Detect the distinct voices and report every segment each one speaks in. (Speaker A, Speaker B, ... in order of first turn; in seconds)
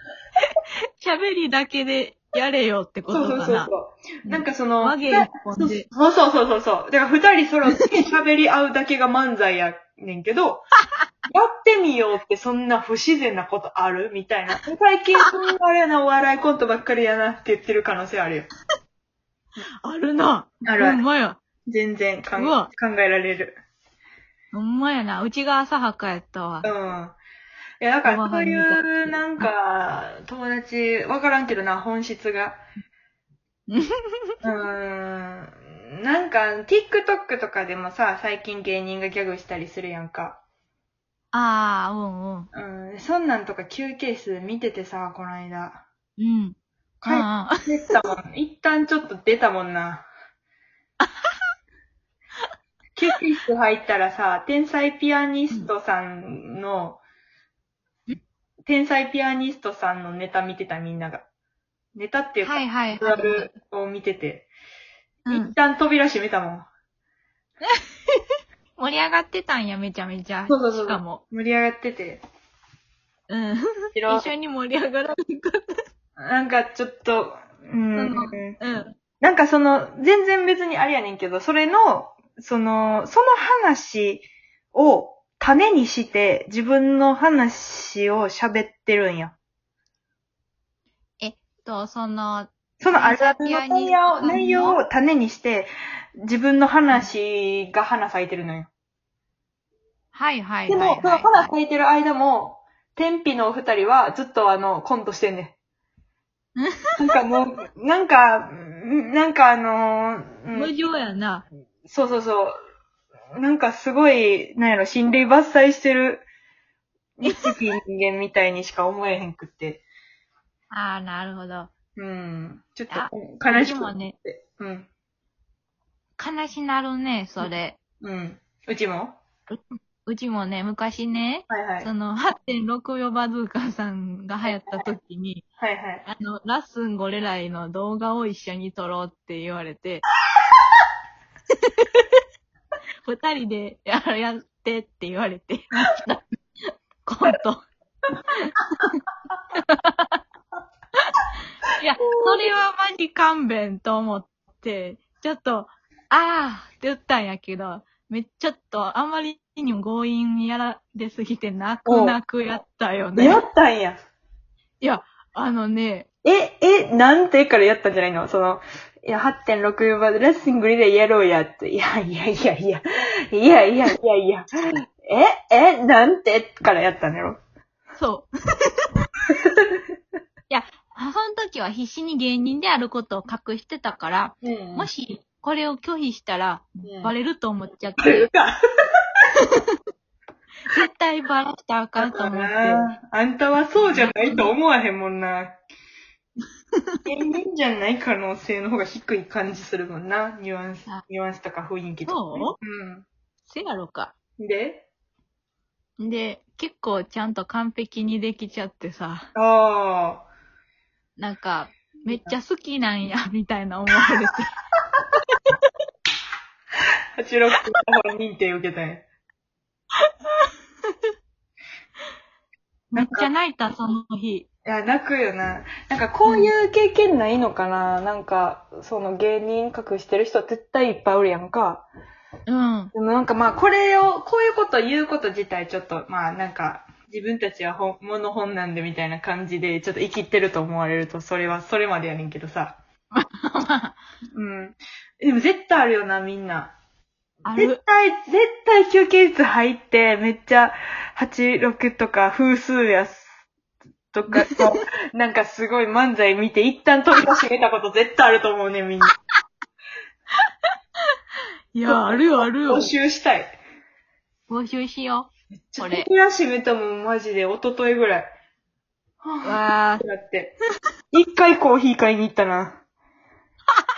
Speaker A: 1.0-3.7, 4.3-5.9, 19.8-21.4, 22.4-22.7, 24.5-26.7, 28.1-29.5, 33.7-34.3, 41.3-42.5, 46.2-47.9, 51.0-51.3, 62.4-63.5, 65.3-65.6, 68.8-71.2, 73.3-75.6, 77.9-78.9, 91.2-94.8, 100.1-101.5, 110.5-111.5, 120.7-121.7, 122.9-124.2, 126.2-127.8, 129.5-135.4, 136.1-140.0, 141.5-142.2, 143.0-146.2, 147.1-147.6, 149.6-150.2, 151.8-163.4, 164.8-166.1, 174.6-174.8, 178.0-178.8, 180.5-188.3, 189.4-189.7, 190.7-192.9, 193.8-194.5, 202.1-202.6, 203.5-204.1, 206.0-209.3, 211.2-214.5, 215.3-215.6, 220.1-220.5, 222.9-224.5, 226.3-226.5, 232.5-232.9, 243.1-244.0, 247.4-247.8, 254.3-254.7, 261.7-262.9, 264.5-266.1, 269.4-270.1
Speaker B: 3.1-10.6, 11.3-18.5, 20.6-21.0, 21.6-23.6, 26.6-27.2, 27.8-32.6, 34.4-40.4, 42.5-45.9, 47.0-50.1, 53.0-57.0, 58.6-61.3, 62.0-64.5, 65.3-66.7, 70.5-72.2, 74.0-74.3, 76.2-78.6, 79.2-89.3, 92.8-98.7, 100.7-105.5, 107.0-110.7, 111.8-112.5, 113.4-116.2, 117.2-119.8, 122.0-124.9, 127.4-129.2, 131.5-131.9, 135.6-136.0, 152.2-152.6, 161.9-162.2, 163.2-164.0, 166.2-177.4, 179.3-179.8, 184.4-184.9, 186.8-187.1, 188.0-188.6, 192.0-195.6, 197.1-203.1, 204.4-204.9, 209.3-210.2, 212.1-212.3, 217.2-219.1, 222.9-223.3, 224.7-231.9, 232.9-242.8, 244.3-246.8, 247.5-253.3, 254.1-259.1, 261.9-263.6, 265.6-268.3, 269.2-270.6, 271.1-272.8